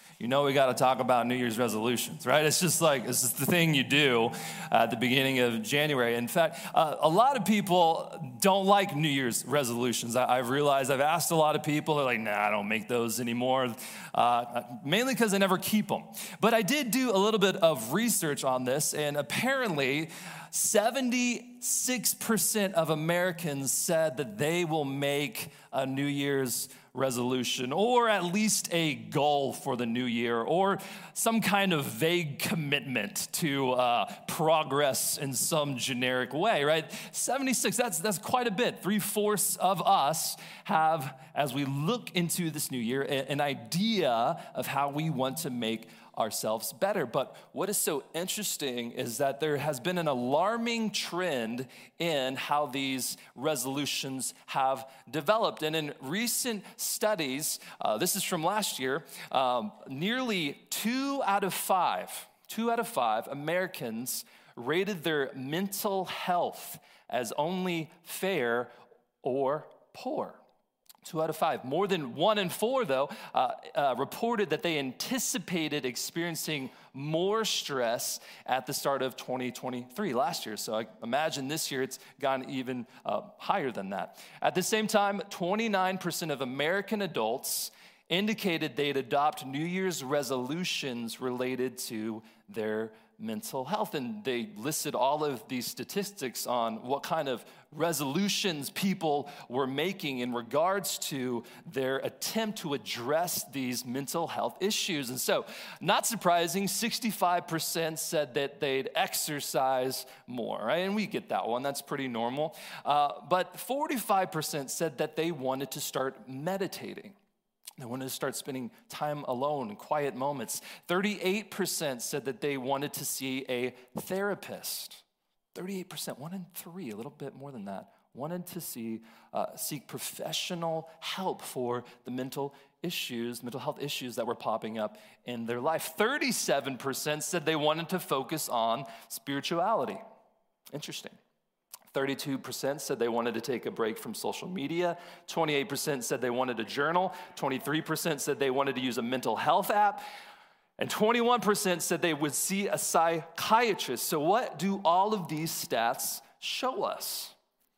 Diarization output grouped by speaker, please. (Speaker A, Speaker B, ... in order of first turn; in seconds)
Speaker A: 0.2-68.7, 69.2-70.4, 71.0-117.2, 117.8-140.0, 140.7-141.2, 141.9-150.0, 150.8-157.3